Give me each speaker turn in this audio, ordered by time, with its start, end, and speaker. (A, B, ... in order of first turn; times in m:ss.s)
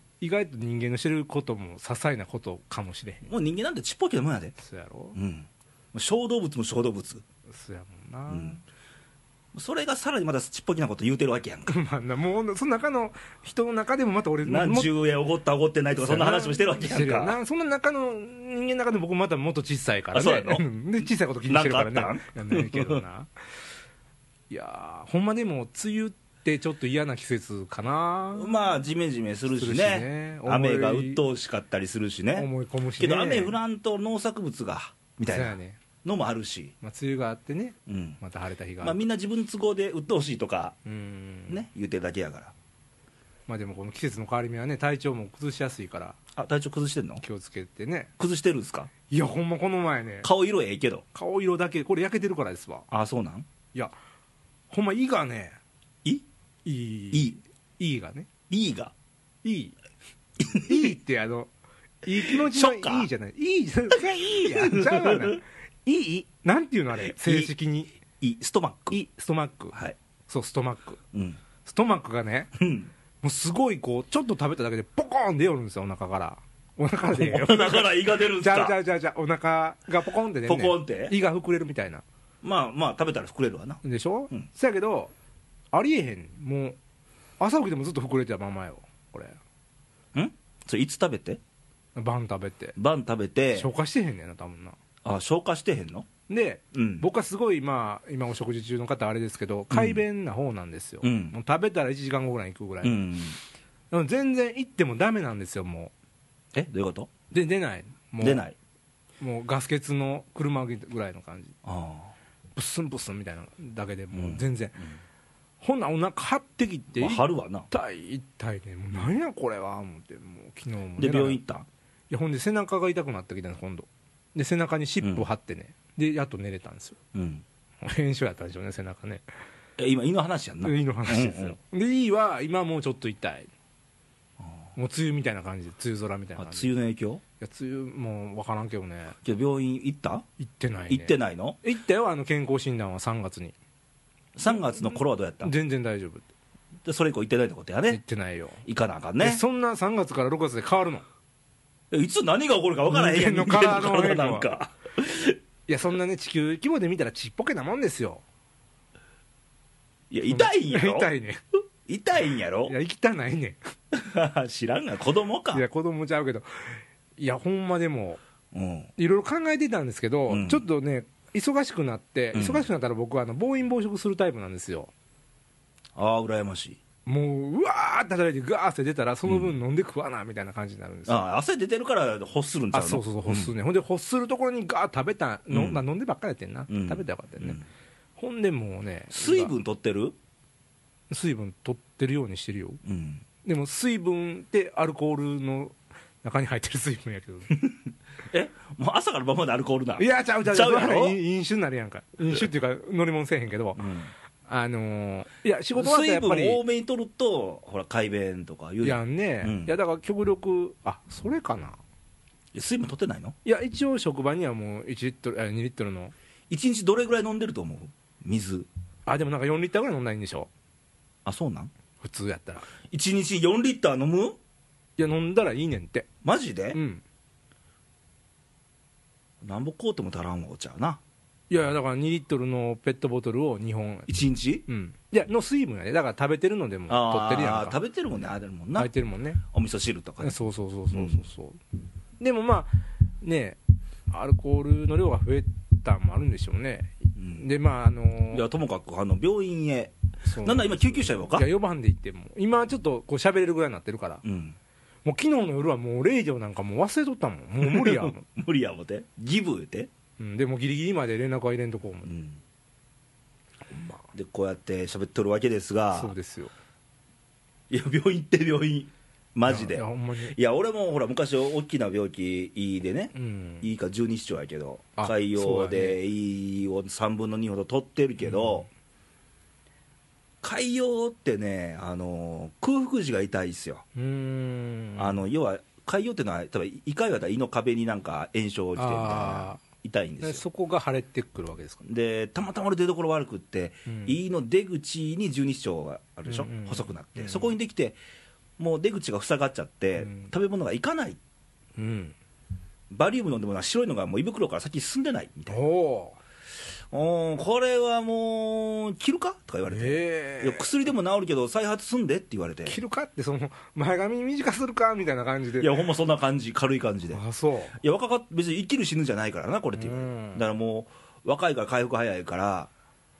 0:00.2-0:03.3 A
0:03.2-0:04.5 B
0:04.6-0:05.2 A
0:05.1-0:07.2 B
0:07.5-0:08.6 A
0:08.3-0:08.6 B
0:09.5-0:11.7 B
0:11.7-0:14.9 A
0:14.4-0:17.4 B
0:16.0-0:23.3 A
0:20.1-0:20.6 B
0:21.5-0:23.0 B
0:24.5-0:28.6 A
0:28.3-0:36.7 B
0:29.6-0:31.2 A
0:32.3-0:33.6 A
0:35.3-0:35.8 A
0:36.8-0:39.0 A
0:37.9-0:38.2 B
0:38.8-0:40.8 B
0:40.8-0:41.6 A
0:41.5-0:42.5 B
0:43.5-0:46.2 A
0:46.4-0:47.2 B
0:47.2-0:48.1 A
0:48.2-0:48.9 B
0:49.1-0:50.3 A
0:50.2-0:51.0 B
0:51.1-0:52.8 A
0:52.9-0:53.4 B
0:54.7-0:55.6 A
0:56.6-0:58.3 A
0:57.1-0:57.4 B
0:58.5-0:58.9 B
0:59.4-0:59.8 A
1:00.4-1:00.9 B
1:00.5-1:01.5 A
1:02.0-1:07.9 A
1:02.2-1:03.1 B
1:03.9-1:05.4 B
1:07.0-1:07.5 B
1:08.2-1:09.0 B
1:08.9-1:09.7 A
1:10.3-1:11.0 A
1:11.1-1:11.4 B
1:11.6-1:12.5 A
1:12.6-1:12.9 B
1:13.2-1:22.0 A
1:17.1-1:18.8 B
1:20.4-1:21.1 B
1:22.4-1:24.4 B
1:23.8-1:25.1 A
1:25.7-1:26.8 A
1:27.4-1:29.4 A
1:30.1-1:31.4 B
1:32.0-1:32.8 A
1:32.8-1:33.7 B
1:33.5-1:34.8 A
1:35.0-1:36.1 B
1:36.3-1:43.0 A
1:36.7-1:37.1 B
1:39.7-1:40.0 B
1:41.0-1:41.3 B
1:42.8-1:43.4 B
1:43.9-1:45.9 A
1:46.5-1:47.1 B
1:47.3-1:48.4 A
1:48.2-1:48.5 B
1:49.2-1:51.6 A
1:51.6-1:52.1 B
1:52.6-1:54.8 A
1:54.1-1:54.4 B
1:55.6-2:01.4 A
1:57.0-1:57.7 B
2:01.0-2:01.6 B
2:02.1-2:07.0 A
2:05.0-2:05.3 B
2:07.1-2:07.4 B
2:07.8-2:09.2 A
2:09.8-2:11.6 B
2:10.6-2:13.5 A
2:14.8-2:16.7 A
2:16.4-2:17.2 B
2:17.4-2:19.2 A
2:19.2-2:20.2 B
2:20.4-2:23.5 A
2:20.9-2:21.6 B
2:24.4-2:25.5 B
2:25.4-2:26.2 A
2:26.8-2:28.0 B
2:27.9-2:28.6 A
2:28.6-2:29.4 B
2:29.2-2:31.0 A
2:31.9-2:35.4 B
2:32.9-2:34.5 A
2:35.7-2:38.2 A
2:40.1-2:41.1 B
2:40.3-2:41.4 A
2:41.9-2:42.7 B
2:42.6-2:43.6 A
2:43.9-2:45.6 B
2:45.5-2:48.2 A
2:48.5-2:48.9 B
2:49.0-2:54.9 A
2:50.3-2:50.6 B
2:52.3-2:52.6 B
2:56.0-2:56.8 B
2:57.0-3:01.2 A
2:59.2-2:59.5 B
3:01.1-3:03.5 B
3:02.7-3:07.6 A
3:05.5-3:05.8 B
3:06.7-3:07.6 B
3:08.2-3:09.5 A
3:09.1-3:10.2 B
3:11.1-3:12.8 A
3:12.8-3:13.2 B
3:13.4-3:17.6 A
3:18.3-3:21.2 B
3:20.0-3:23.8 A
3:23.8-3:24.1 B
3:24.5-3:26.6 A
3:25.7-3:29.7 B
3:28.8-3:31.8 A
3:32.5-3:33.3 B
3:33.4-3:36.1 A
3:36.5-3:38.7 B
3:39.0-3:40.5 A
3:41.2-3:41.7 B
3:42.0-3:42.7 A
3:42.9-3:44.4 B
3:45.0-3:46.1 A
3:46.2-3:46.8 B
3:46.7-3:47.0 A
3:49.4-3:51.0 B
3:51.5-3:54.1 A
3:54.1-3:54.6 B
3:54.7-3:57.8 A
3:56.9-3:58.9 B
3:58.8-3:59.4 A
3:59.5-4:00.4 B
4:00.2-4:01.6 A
4:00.9-4:01.2 B
4:02.2-4:03.6 A
4:04.1-4:08.4 A
4:07.2-4:07.4 B
4:08.3-4:11.5 B
4:10.2-4:14.2 A
4:14.2-4:14.6 B
4:15.0-4:18.2 A
4:17.6-4:19.9 B
4:20.2-4:22.1 A
4:22.0-4:22.4 B
4:23.7-4:24.0 A
4:24.1-4:26.1 B
4:25.9-4:26.5 A
4:27.7-4:38.7 B
4:29.5-4:30.4 A
4:33.1-4:33.6 A
4:35.0-4:36.0 A
4:38.2-4:38.6 A
4:40.4-4:43.8 B
4:43.9-4:45.2 A
4:45.0-4:50.4 B
4:48.8-4:49.6 A
4:50.2-4:51.8 A
4:51.8-4:58.0 B
4:53.9-4:54.2 A
4:56.2-4:57.5 A
4:58.6-5:01.2 B
5:00.0-5:00.3 A
5:01.8-5:02.2 A
5:02.9-5:05.6 B
5:05.5-5:06.2 A
5:06.9-5:12.8 B
5:09.7-5:10.7 A
5:12.6-5:15.8 A
5:15.6-5:17.2 B
5:17.1-5:17.8 A
5:17.8-5:22.7 B
5:19.8-5:20.4 A